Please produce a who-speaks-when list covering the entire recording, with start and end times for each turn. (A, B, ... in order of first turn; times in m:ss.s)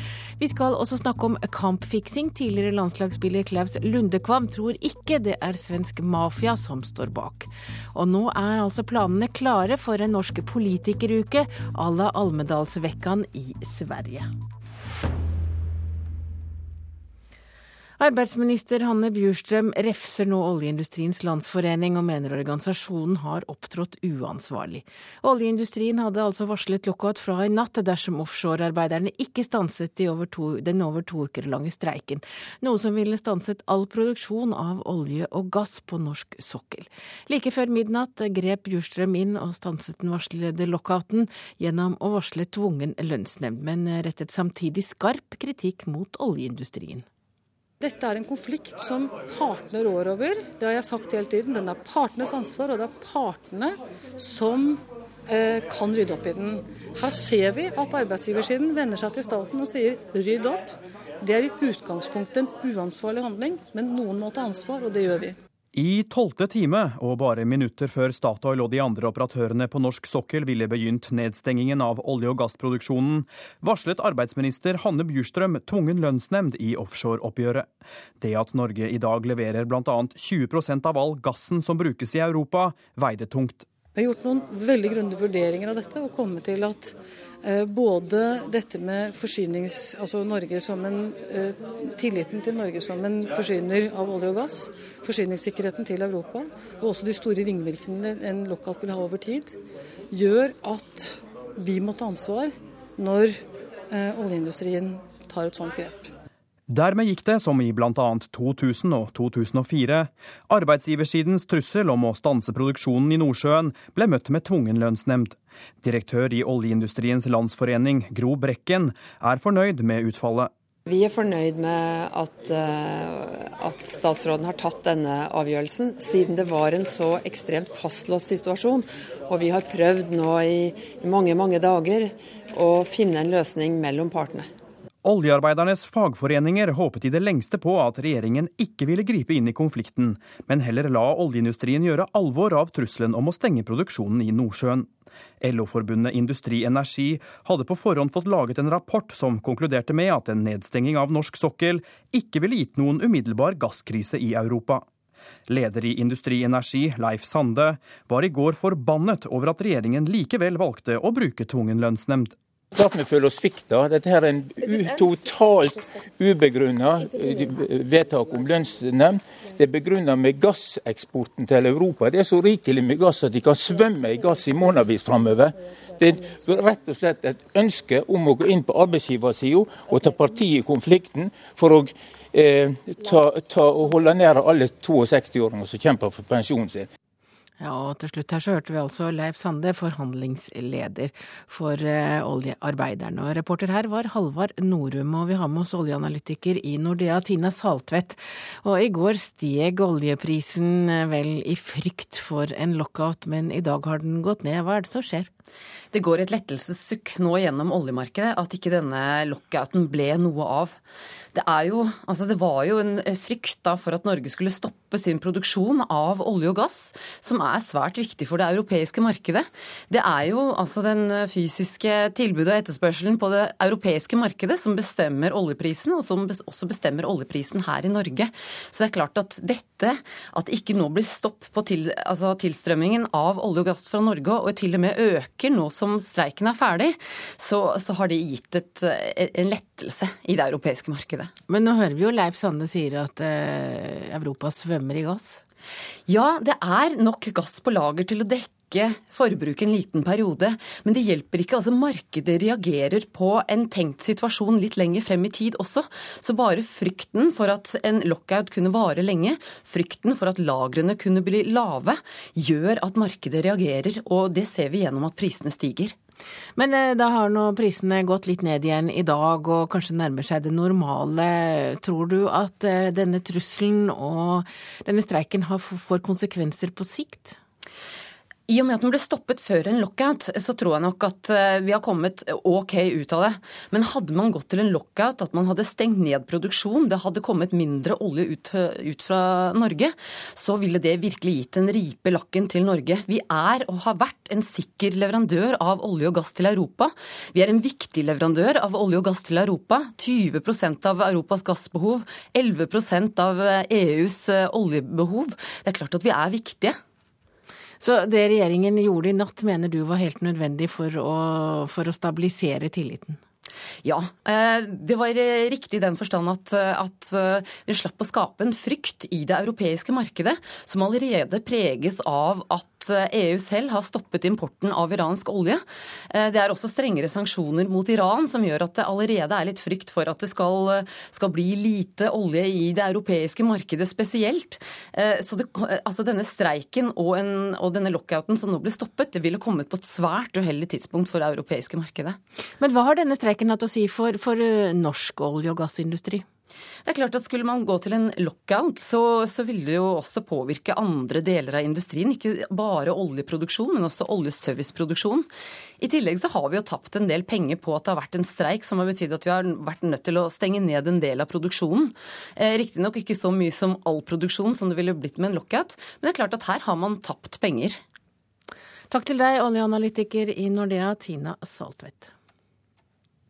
0:00.4-0:14.3 A
0:18.0-0:47.0 A
0:47.8-1:05.4 B
1:05.8-1:17.7 C
1:18.2-1:23.7 C
1:24.0-1:39.6 B
1:40.1-1:43.4 B
1:43.9-1:46.1 B
1:46.7-2:00.5 C
2:00.9-2:14.5 D
2:15.0-2:24.9 C
2:25.4-2:34.8 C
2:35.5-2:42.4 C
2:42.7-3:06.9 E
3:07.6-3:25.3 A
3:25.9-3:30.8 F
3:31.3-4:01.3 F
4:01.5-4:05.4 A
4:06.1-4:26.0 F
4:26.6-4:37.4 A
4:38.5-5:06.8 F
5:07.8-5:13.2 A
5:13.8-5:42.2 F
5:42.6-5:46.2 A
5:46.8-5:55.3 F
5:55.8-6:07.8 F
6:08.9-6:12.1 A